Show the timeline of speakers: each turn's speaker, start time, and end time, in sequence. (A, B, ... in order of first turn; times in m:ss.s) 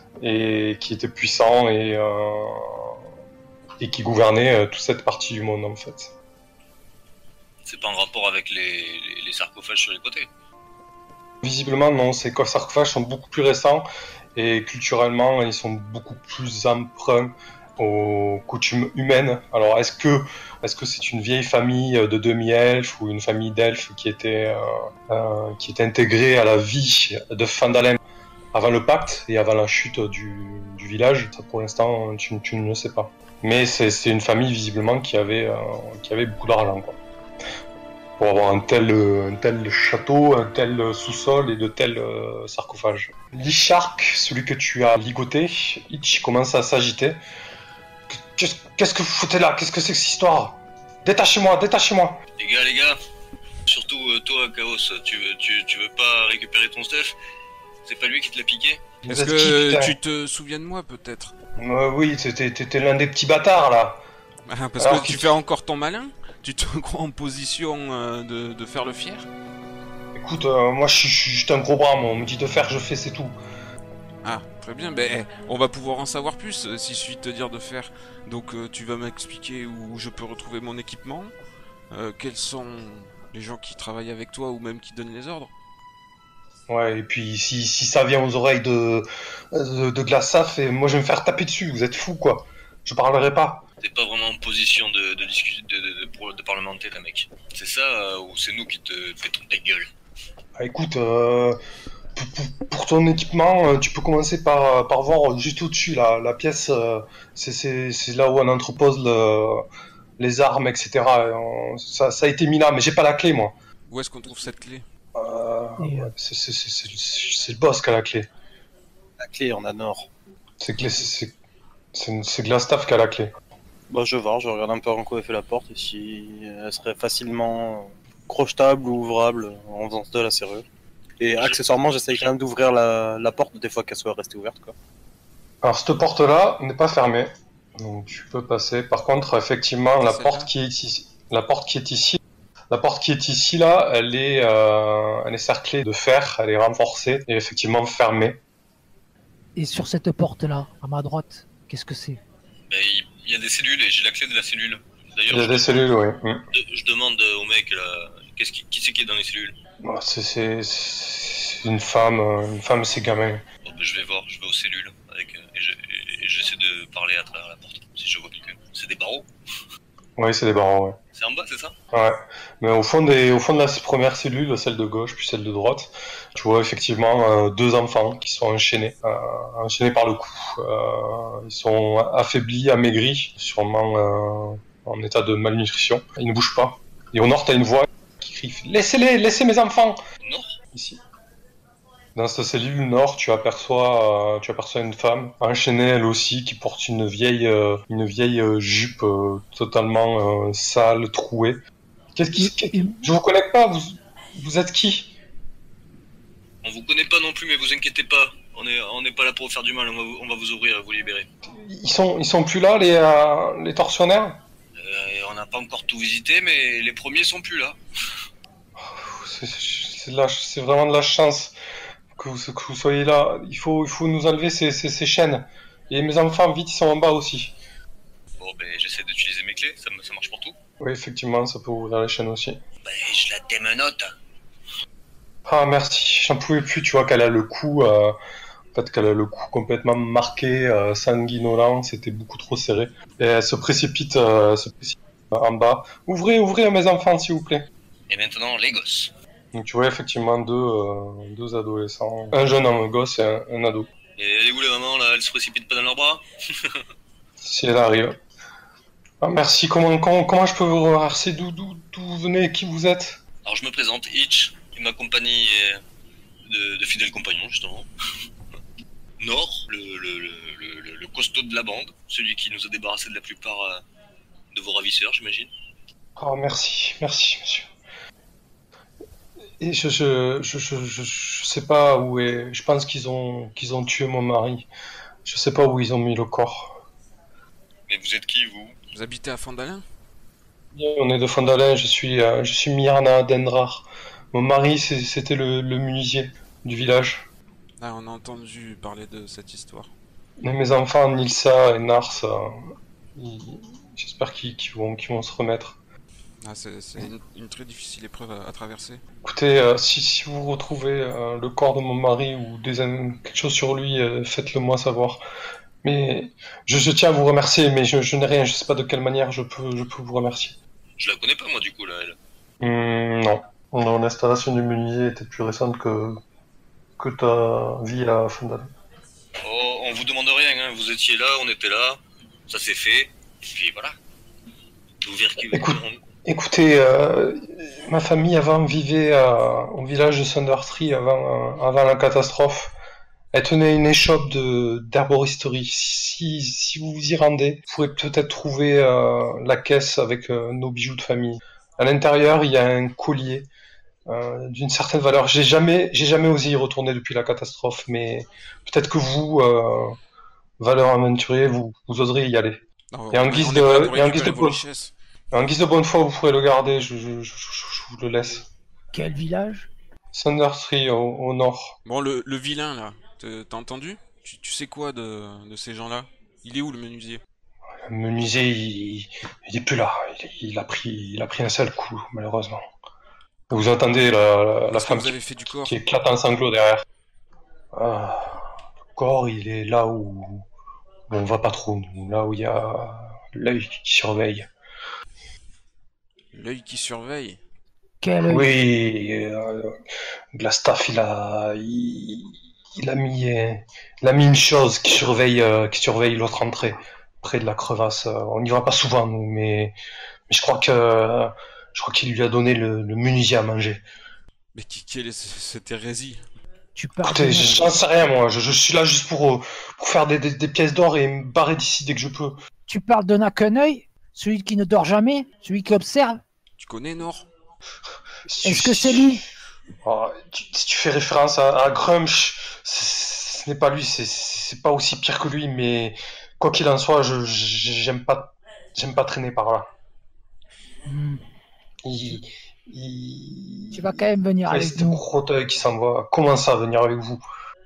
0:00.2-0:03.0 A
0:03.8-0:06.1 A
0:07.6-0:10.3 B
0:11.4-0:28.0 A
0:28.5-0:37.0 A
0:38.2-0:47.2 A
0:48.1-0:52.2 A
0:52.4-0:53.0 B
0:53.6-0:57.2 B
0:57.8-0:58.8 B
0:59.0-1:00.0 A
0:59.1-1:01.3 C
1:01.6-1:04.0 A
1:04.5-1:09.3 C
1:04.8-1:05.3 A
1:10.1-1:13.4 A
1:14.2-1:21.3 C
1:21.9-1:25.5 C
1:26.7-1:33.6 A
1:33.8-1:39.9 B
1:40.6-1:41.6 A
1:42.2-1:49.6 A
1:50.2-1:53.5 A
1:53.9-1:54.8 C
1:55.1-1:58.3 A
1:55.8-1:56.1 D
1:59.2-2:00.1 E
2:00.6-2:01.3 A
2:01.9-2:03.3 A
2:03.9-2:10.6 E
2:11.2-2:14.7 E
2:15.6-2:28.4 A
2:20.0-2:20.5 C
2:29.6-2:32.2 D
2:32.7-2:35.8 B
2:35.3-2:36.4 A
2:36.5-2:39.6 B
2:39.8-2:43.4 A
2:43.6-2:49.3 B
2:50.2-2:51.0 A
2:51.1-2:51.7 B
2:51.9-3:10.0 A
3:10.2-3:10.6 B
3:10.7-3:11.0 A
3:12.1-3:21.6 A
3:22.2-3:25.1 A
3:22.4-3:23.1 D
3:26.6-3:31.3 B
3:31.5-3:34.4 A
3:34.8-3:37.8 B
3:38.8-3:41.5 A
3:42.1-3:47.6 A
3:48.4-3:50.6 B
3:50.8-3:52.6 A
3:52.8-3:54.1 B
3:55.4-3:58.2 A
3:58.7-4:07.7 A
4:08.1-4:09.1 B
4:09.5-4:13.9 A
4:14.2-4:16.8 B
4:17.4-4:18.2 A
4:19.2-4:23.2 A
4:23.4-4:25.8 B
4:26.4-4:27.9 B
4:29.2-4:33.8 B
4:34.5-4:35.5 B
4:36.2-4:37.7 A
4:39.6-4:44.7 A
4:45.2-4:46.8 A
4:47.9-4:48.8 B
4:48.9-4:49.8 C
4:50.7-4:57.3 A
4:57.8-4:59.9 C
5:00.4-5:05.8 A
5:06.4-5:09.0 C
5:09.2-5:15.2 A
5:15.8-5:20.6 A
5:21.0-5:22.2 B
5:22.6-5:26.2 A
5:27.0-5:28.7 A
5:29.4-5:34.0 B
5:35.0-5:36.0 B
5:35.5-5:42.7 A
5:43.3-5:53.5 A
5:54.1-6:00.0 A
6:00.6-6:04.6 A
6:02.9-6:04.9 C
6:05.3-6:08.5 A
6:08.9-6:09.7 D
6:10.1-6:11.8 A
6:11.8-6:17.2 C
6:17.8-6:22.7 A
6:23.5-6:26.8 A
6:24.7-6:25.7 C
6:27.7-6:30.4 A
6:31.1-6:34.5 A
6:36.3-6:37.4 C
6:38.0-6:38.5 D
6:38.3-6:39.8 A
6:40.3-6:49.8 A
6:50.3-6:53.8 A
6:54.5-6:56.2 C
6:56.7-6:57.8 D
6:57.0-7:02.4 A
7:02.7-7:06.2 D
7:06.6-7:07.3 C
7:08.3-7:09.1 A
7:08.4-7:09.2 D
7:09.8-7:19.7 A
7:20.8-7:21.2 D
7:21.8-7:27.2 A
7:23.7-7:25.0 D